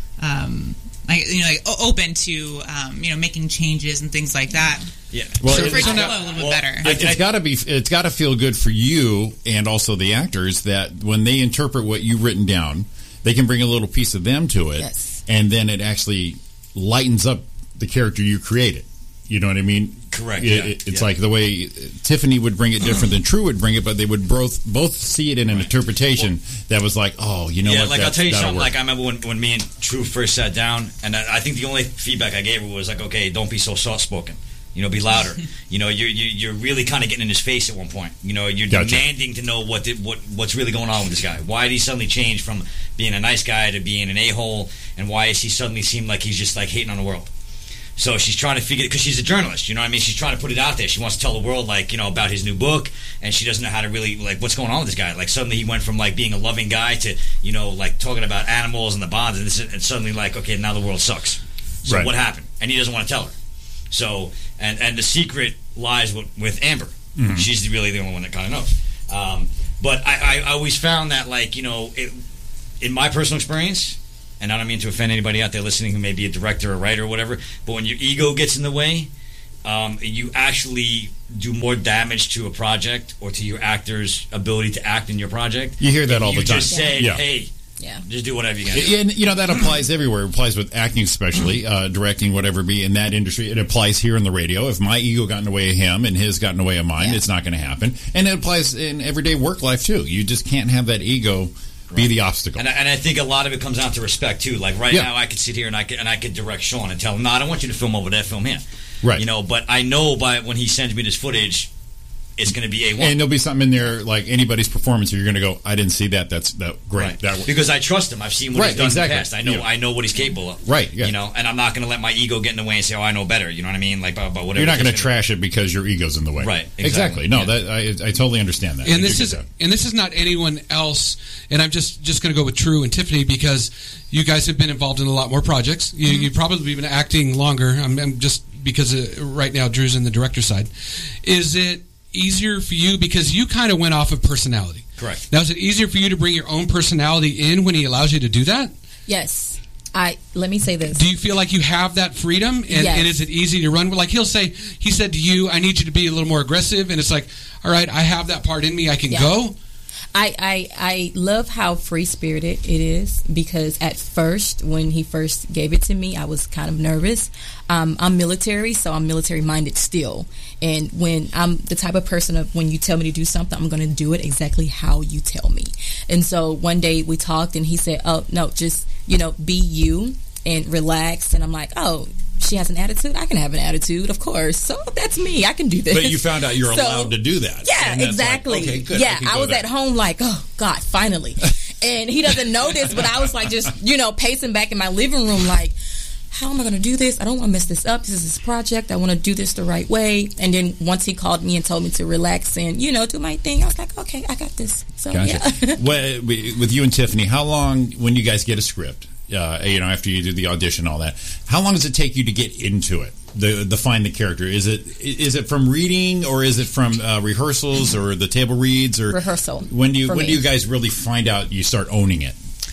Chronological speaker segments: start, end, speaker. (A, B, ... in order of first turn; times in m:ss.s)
0:00.2-0:04.9 A
0:05.1-0:07.3 B
0:05.4-0:06.2 C
0:05.5-0:06.9 A
0:06.8-0:28.7 C
0:14.8-0:15.2 D
0:20.1-0:21.1 B
0:25.5-0:26.3 B
0:27.6-0:47.3 B
0:38.7-0:39.1 C
0:48.0-1:03.3 B
1:01.9-1:02.1 C
1:03.9-1:12.2 B
1:07.2-1:07.5 C
1:12.8-1:19.1 B
1:19.6-1:27.5 B
1:25.8-1:27.3 C
1:26.7-1:27.1 D
1:28.1-1:29.0 B
1:28.7-1:42.6 C
1:41.9-1:48.6 B
1:49.2-1:51.7 B
1:52.4-1:53.2 B
1:53.0-1:57.5 C
1:57.0-2:05.1 B
1:58.5-1:59.6 C
2:00.6-2:01.1 C
2:04.6-2:09.4 C
2:06.4-2:07.5 B
2:08.8-2:20.7 E
2:21.2-2:28.7 E
2:25.0-2:25.2 B
2:29.1-2:31.0 D
2:30.9-2:39.6 E
2:32.7-2:33.1 D
2:39.1-2:39.4 D
2:40.1-3:15.8 D
3:05.9-3:09.7 C
3:16.3-3:25.8 D
3:25.1-3:42.4 C
3:39.1-3:40.4 D